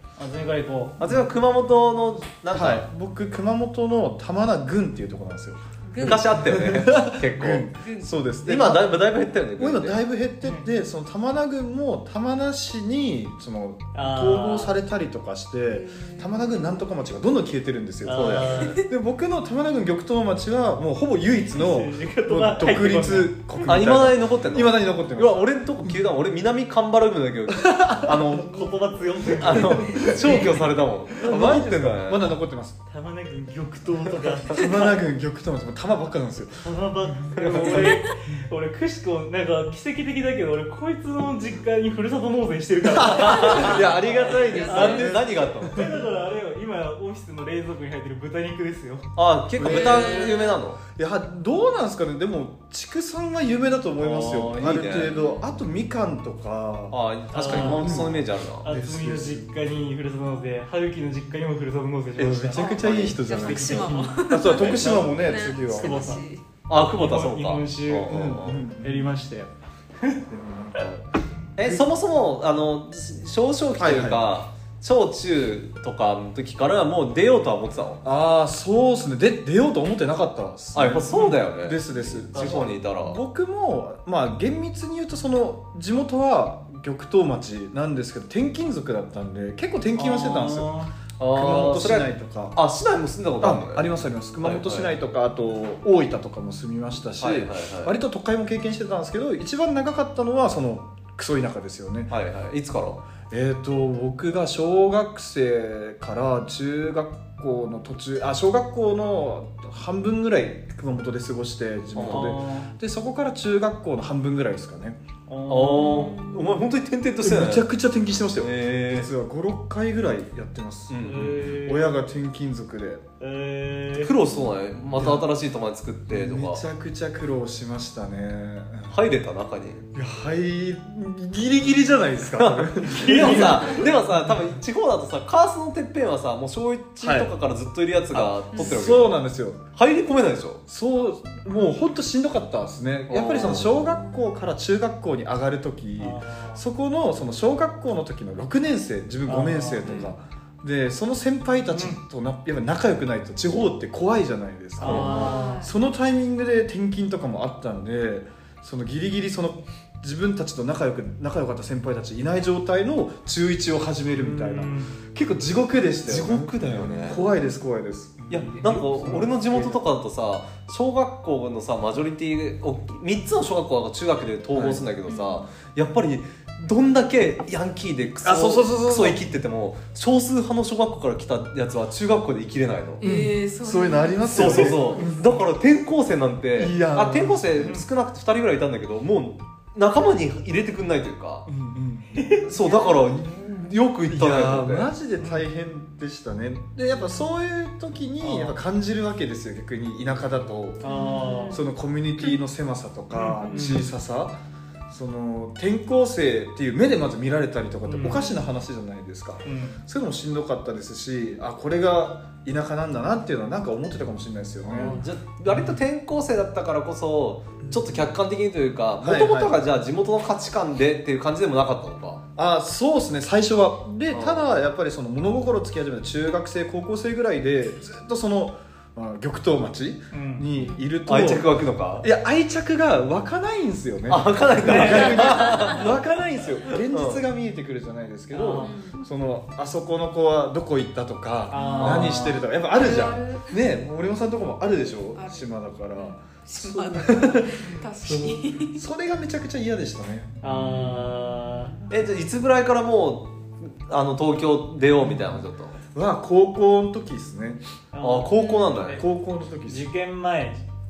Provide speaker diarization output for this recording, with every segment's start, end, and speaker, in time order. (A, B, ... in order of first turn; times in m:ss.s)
0:00.2-0:01.0 A
0:01.0-0:02.8 B
0:02.5-0:25.9 C
0:05.9-0:06.3 D
0:06.0-0:07.7 B
0:07.8-0:08.1 D
0:08.4-0:10.0 B
0:13.9-0:14.8 A
0:15.7-0:16.8 D
0:18.0-0:18.8 A
0:18.1-0:18.8 B
0:21.4-0:23.4 A
0:23.6-0:28.4 B
0:27.5-0:28.7 C
0:28.4-0:30.1 A
0:29.3-0:32.3 B
0:29.5-0:30.6 C
0:30.2-0:30.6 D
0:31.1-0:32.8 C
0:32.9-0:34.9 A
0:34.5-0:37.3 C
0:36.6-0:49.1 A
0:37.3-0:38.0 B
0:43.0-0:46.0 C
0:43.1-0:43.9 B
0:43.1-0:45.1 D
0:44.6-0:45.8 B
0:49.2-0:50.8 B
0:49.6-0:50.3 C
0:49.6-0:50.6 D
0:50.9-0:59.7 C
0:54.0-0:55.1 B
0:55.0-0:55.6 D
0:56.9-0:58.6 B
0:57.3-0:58.0 A
0:58.6-1:02.7 A
1:02.2-1:06.2 C
1:02.5-1:06.4 D
1:02.8-1:03.6 B
1:03.3-1:05.2 A
1:05.8-1:06.2 A
1:06.7-1:08.6 B
1:06.9-1:08.2 A
1:08.1-1:09.2 C
1:08.8-1:09.5 A
1:10.3-1:11.0 C
1:11.6-1:11.8 C
1:11.6-1:18.0 B
1:13.8-1:14.2 C
1:18.0-1:30.7 C
1:20.7-1:23.2 B
1:21.1-1:22.7 A
1:29.9-1:30.9 A
1:31.2-1:34.9 B
1:31.2-1:32.6 C
1:33.4-1:42.1 C
1:37.2-1:37.9 B
1:42.1-1:43.0 B
1:43.3-1:55.0 C
1:51.9-1:52.3 B
1:52.0-1:52.7 A
1:55.3-1:56.2 A
1:55.5-1:57.7 B
1:55.8-1:56.6 D
1:57.2-2:03.0 C
1:58.4-1:59.1 B
2:00.9-2:01.4 B
2:01.0-2:01.9 A
2:03.2-2:04.1 A
2:04.0-2:06.6 B
2:04.9-2:05.3 C
2:06.1-2:09.0 C
2:08.9-2:09.8 B
2:09.9-2:13.9 C
2:12.3-2:19.2 B
2:12.9-2:13.8 A
2:17.0-2:17.3 C
2:18.1-2:19.6 C
2:18.5-2:18.9 D
2:19.7-2:20.6 B
2:20.7-2:49.8 C
2:23.1-2:23.7 B
2:23.7-2:24.2 D
2:26.0-2:26.6 A
2:29.2-2:30.0 A
2:29.8-2:30.1 B
2:31.7-2:32.0 A
2:34.8-2:35.7 A
2:34.8-2:35.7 D
2:44.1-2:45.0 A
2:46.0-2:47.2 B
2:48.3-2:49.4 A
2:48.3-3:03.0 B
2:54.5-2:54.8 C
2:55.1-2:55.5 D
2:58.2-2:59.2 C
3:03.0-3:05.1 D
3:03.0-3:05.3 C
3:04.3-3:11.5 B
3:06.6-3:07.8 C
3:07.6-3:07.8 A
3:11.5-3:12.2 C
3:12.1-3:12.5 A
3:12.4-3:14.9 B
3:12.5-3:13.2 D
3:14.1-3:20.9 C
3:15.2-3:15.4 A
3:16.9-3:17.3 D
3:18.2-3:18.6 A
3:20.8-3:21.6 A
3:20.8-3:21.6 D
3:21.5-3:24.4 C
3:23.1-3:23.9 A
3:24.9-3:35.8 C
3:27.8-3:28.4 A
3:29.4-3:29.8 A
3:34.6-3:42.2 B
3:34.7-3:35.0 D
3:37.6-3:38.1 C
3:39.0-3:39.6 C
3:42.4-4:10.4 C
3:44.1-3:44.4 B
3:50.1-3:50.5 A
3:50.6-3:50.9 D
3:51.0-3:52.1 B
3:54.1-3:55.9 B
3:54.6-3:55.2 A
3:55.2-3:55.8 D
3:56.7-3:57.2 B
3:58.3-3:58.7 A
3:58.6-3:59.0 D
4:01.5-4:02.4 A
4:01.5-4:03.6 D
4:01.7-4:02.2 B
4:05.1-4:08.8 D
4:10.4-4:11.7 A
4:10.5-4:11.1 D
4:11.9-4:15.8 B
4:15.0-4:17.6 C
4:17.9-4:19.0 A
4:18.0-4:19.0 B
4:18.3-4:18.8 D
4:18.9-4:19.9 C
4:19.6-4:20.6 A